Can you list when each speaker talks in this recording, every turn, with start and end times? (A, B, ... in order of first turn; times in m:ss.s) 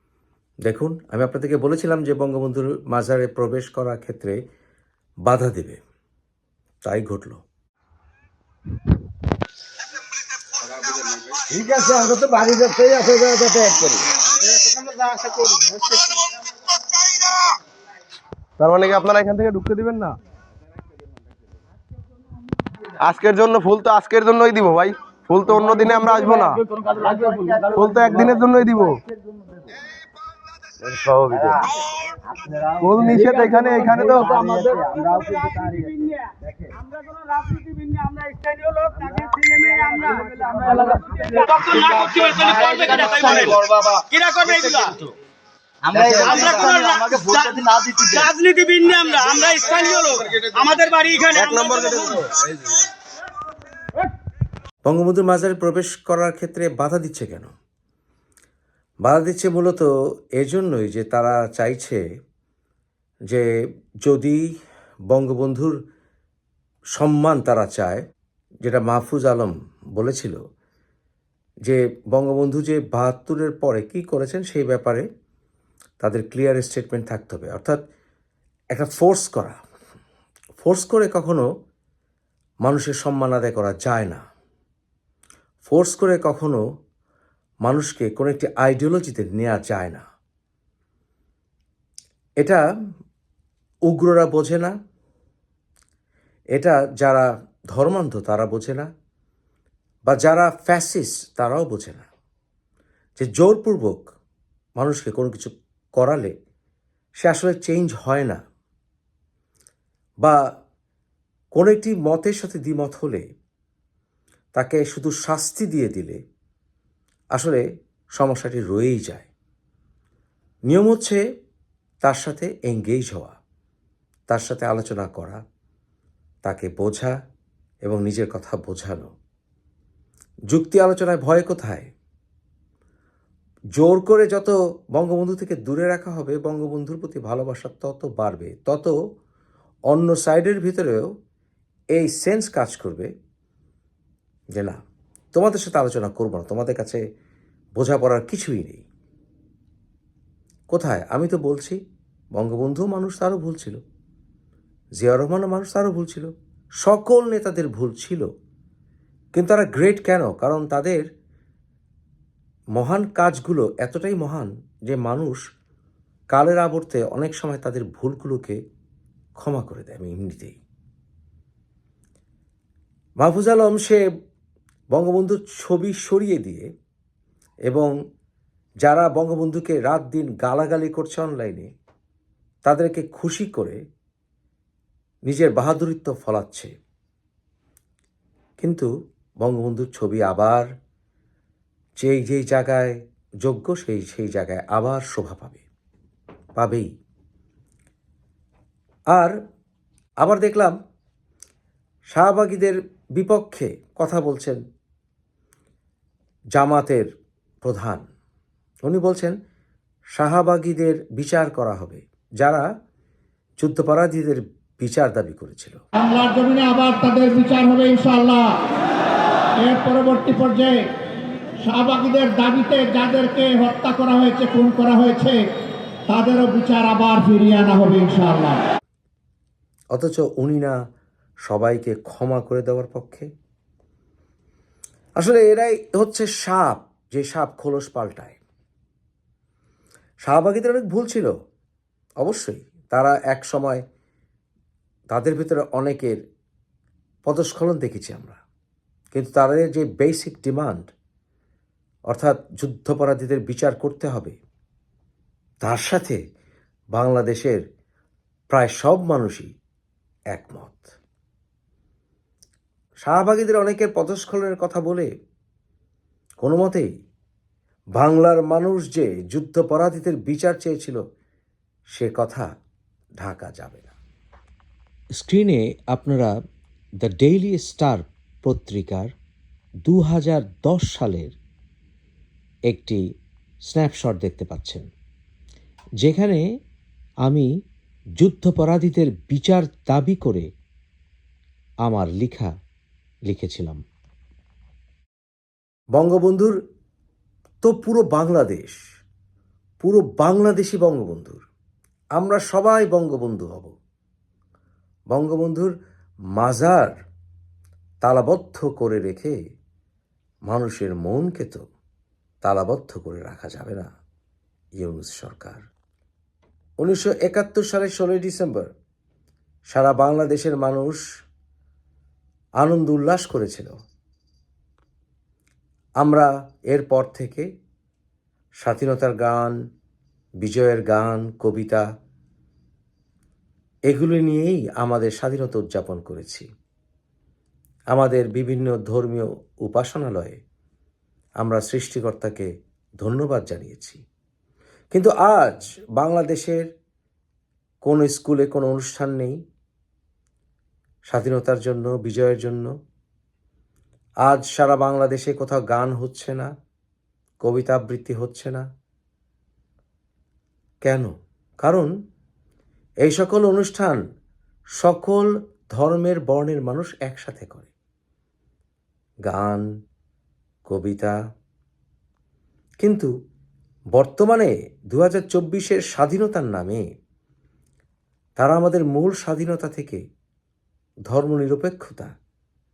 0:00.6-0:04.4 A
0:05.2-0:05.8 A
0:06.8-0:07.4 A
0:11.5-0:14.0 B
0:15.0-0:15.8 C
0:18.6-0:20.2 D
0:23.0-0:26.6 D
0:26.8-0:27.7 E
0:26.9-0:29.6 B
0:27.7-0:29.0 D
0:30.8-0:31.6 D
0:31.3-0:31.7 B
0:32.3-0:36.0 B
0:32.8-0:34.4 D
0:34.3-0:36.1 E
0:37.0-0:45.1 E
0:39.0-0:43.7 B
0:40.8-0:41.5 C
0:45.9-0:48.3 B
0:46.1-0:52.2 E
0:51.3-0:52.7 D
0:54.9-0:57.5 A
0:59.0-1:02.0 A
1:04.0-1:04.5 A
1:05.1-1:05.8 A
1:07.0-1:08.0 A
1:08.6-1:10.4 A
1:11.6-1:15.0 A
1:16.0-1:17.8 A
1:18.7-1:19.6 A
1:20.6-1:21.4 A
1:22.6-1:24.2 A
1:25.6-1:26.6 A
1:27.6-1:30.0 A
1:33.9-1:34.7 A
1:36.5-1:38.9 A
1:40.1-1:42.1 A
1:43.2-1:44.1 A
1:44.8-1:46.3 A
1:47.2-1:48.4 A
1:51.6-1:53.2 A
1:54.6-1:56.2 A
1:57.3-1:57.6 A
1:58.2-1:59.3 A
2:00.7-2:01.2 A
2:02.0-2:03.4 A
2:04.3-2:05.4 A
2:06.4-2:07.1 A
2:07.8-2:09.1 A
2:10.5-2:11.9 A
2:13.8-2:18.9 A
2:19.9-2:21.1 A
2:21.9-2:23.1 A
2:24.6-2:24.8 A
2:25.3-2:27.0 A
2:27.8-2:28.8 A
2:30.7-2:31.8 A
2:32.4-2:33.8 A
2:35.0-2:36.3 A
2:36.8-2:38.2 A
2:39.4-2:41.0 A
2:42.8-2:45.4 A
2:46.3-2:48.6 A
2:49.4-2:50.6 A
2:53.2-2:54.0 A
2:54.9-2:56.6 A
2:58.8-3:01.7 A
3:02.6-3:03.8 A
3:05.3-3:06.7 A
3:08.6-3:08.9 A
3:09.4-3:10.7 A
3:12.0-3:15.6 A
3:16.6-3:16.9 A
3:20.2-3:20.8 A
3:22.1-3:24.6 A
3:26.6-3:27.1 A
3:27.6-3:28.0 A
3:28.9-3:29.4 A
3:30.2-3:32.7 A
3:33.6-3:35.8 A
3:36.0-3:38.6 C
3:39.6-3:40.9 C
3:41.6-3:45.5 C
3:46.1-3:48.6 C
3:49.9-3:50.8 A
3:51.5-3:53.3 A
3:55.2-3:58.4 A
4:00.2-4:01.3 A
4:02.2-4:03.8 A
4:05.1-4:06.2 A
4:07.3-4:08.4 A
4:09.1-4:10.9 A
4:12.1-4:14.4 A
4:15.6-4:16.2 A
4:16.9-4:17.6 A
4:18.5-4:19.5 A
4:20.3-4:20.9 A
4:23.0-4:25.1 A
4:26.4-4:26.9 A
4:28.0-4:31.0 A
4:31.9-4:32.5 A
4:33.2-4:33.9 A
4:35.2-4:36.3 A
4:37.0-4:39.1 A
4:39.9-4:41.4 A
4:42.7-4:43.0 A
4:43.7-4:44.9 A
4:46.0-4:46.4 A
4:48.2-4:50.5 A
4:51.8-4:52.5 A
4:53.3-4:53.8 A
4:56.0-4:56.6 A
4:57.6-4:58.8 A
4:59.8-5:01.4 A
5:02.2-5:03.7 A
5:05.1-5:05.7 A
5:06.4-5:07.0 A
5:08.0-5:09.3 A
5:10.5-5:11.6 A
5:12.4-5:13.9 A
5:14.8-5:15.6 A
5:16.8-5:18.7 A
5:19.7-5:21.0 A
5:22.6-5:23.7 A
5:26.0-5:27.4 A
5:28.6-5:29.6 A
5:30.4-5:31.8 A
5:33.9-5:36.5 A
5:37.9-5:40.4 A
5:41.4-5:42.5 A
5:43.0-5:44.0 A
5:44.9-5:46.6 A
5:47.8-5:49.4 A
5:51.1-5:52.7 A
5:54.2-5:56.5 A
5:57.4-5:58.6 A
6:00.8-6:01.1 A
6:01.6-6:01.9 A
6:03.0-6:04.0 A
6:04.8-6:07.7 A
6:09.2-6:09.6 A
6:10.7-6:11.2 A
6:12.8-6:13.1 A
6:13.9-6:16.8 A
6:18.4-6:20.0 A
6:21.1-6:22.1 A